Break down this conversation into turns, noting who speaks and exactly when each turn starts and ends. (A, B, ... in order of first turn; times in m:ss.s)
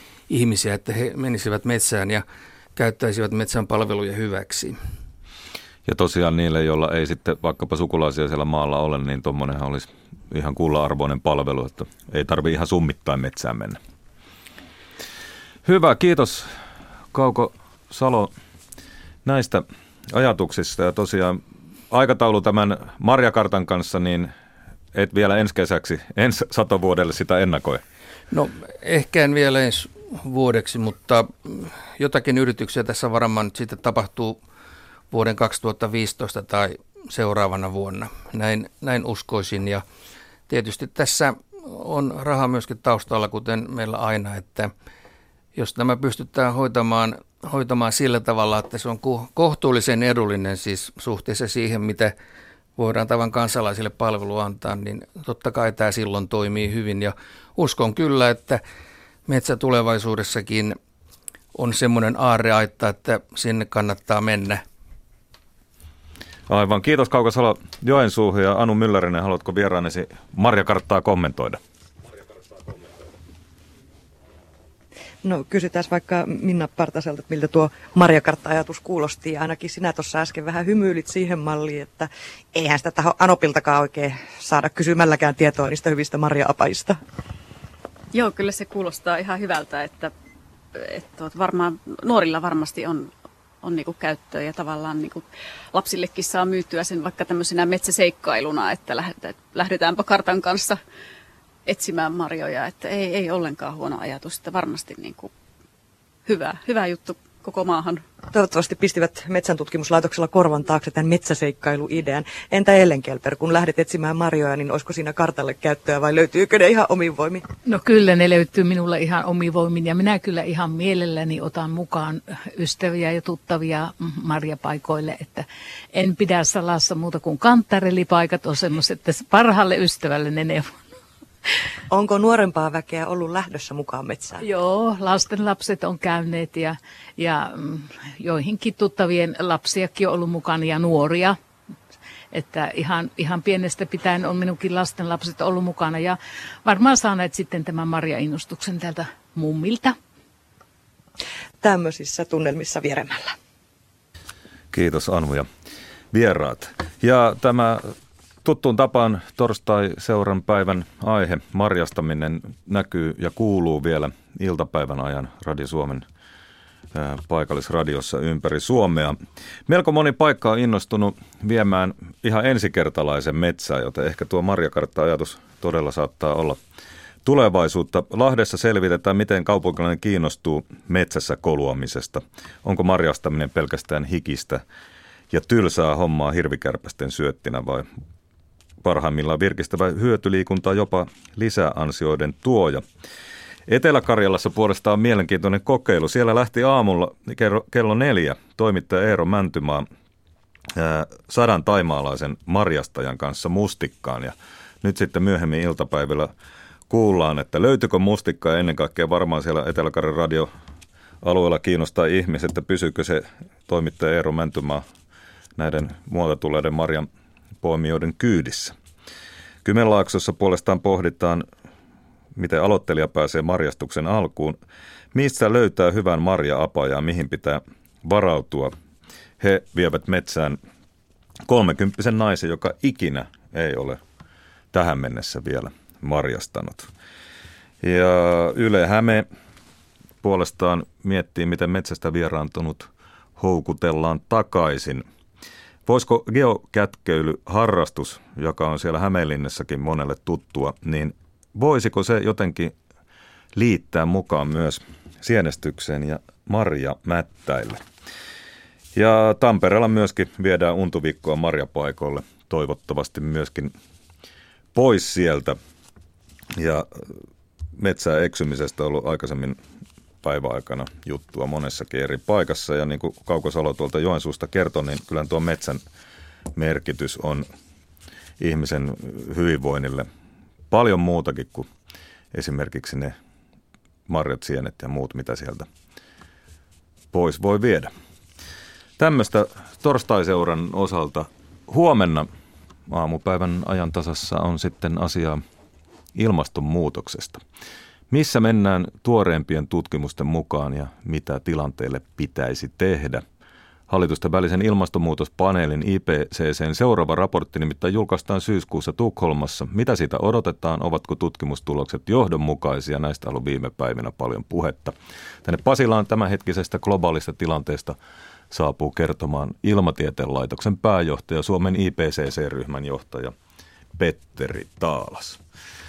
0:00.3-0:02.2 A
0:02.8-0:04.8 A
0:05.9-0:13.8 B
0:15.6-0:16.5 B
0:17.1-0:18.3 B
0:19.2-0:24.3 B
0:24.9-0:27.8 B
0:28.3-0:34.4 A
0:35.1-0:39.8 A
0:40.5-0:44.7 A
0:45.6-0:52.2 A
0:52.8-0:58.6 A
0:59.3-1:00.8 A
1:01.6-1:04.6 A
1:06.5-1:11.6 B
1:15.2-1:27.0 C
1:28.1-1:30.1 D
1:30.8-1:33.1 D
1:33.6-1:40.8 D
1:41.7-1:45.3 D
1:46.3-1:48.0 D
1:48.3-1:57.4 C
1:57.7-2:10.8 E
2:11.9-2:14.4 C
2:14.4-2:21.4 E
2:22.3-2:30.0 E
2:31.6-2:33.4 C
2:34.7-2:35.5 B
2:36.1-2:37.9 B
2:38.4-2:46.0 B
2:46.9-2:56.6 B
2:57.2-3:04.6 B
3:05.3-3:07.9 B
3:08.8-3:12.8 B
3:13.7-3:19.8 B
3:20.8-3:26.3 B
3:26.9-3:30.5 B
3:31.2-3:34.8 B
3:35.6-3:37.1 B
3:37.6-3:38.7 B
3:39.6-3:41.4 B
3:42.4-3:44.6 B
3:45.1-3:48.7 B
3:49.4-3:50.6 B
3:51.5-3:54.0 B
3:54.7-3:56.9 B
3:57.8-3:59.3 B
4:00.2-4:05.0 B
4:05.9-4:12.7 B
4:13.6-4:17.8 B
4:19.0-4:23.7 B
4:24.8-4:25.6 B
4:26.6-4:27.0 B
4:27.8-4:29.6 B
4:30.2-4:35.8 B
4:36.6-4:37.5 B
4:38.4-4:40.1 B
4:40.7-4:41.7 B
4:42.3-4:43.2 B
4:44.1-4:45.7 B
4:47.1-4:47.9 B
4:49.0-4:52.3 B
4:52.9-4:55.4 B
4:56.2-4:57.4 B
4:58.1-5:03.2 B
5:03.9-5:18.0 B
5:18.5-5:23.3 B
5:24.0-5:25.4 B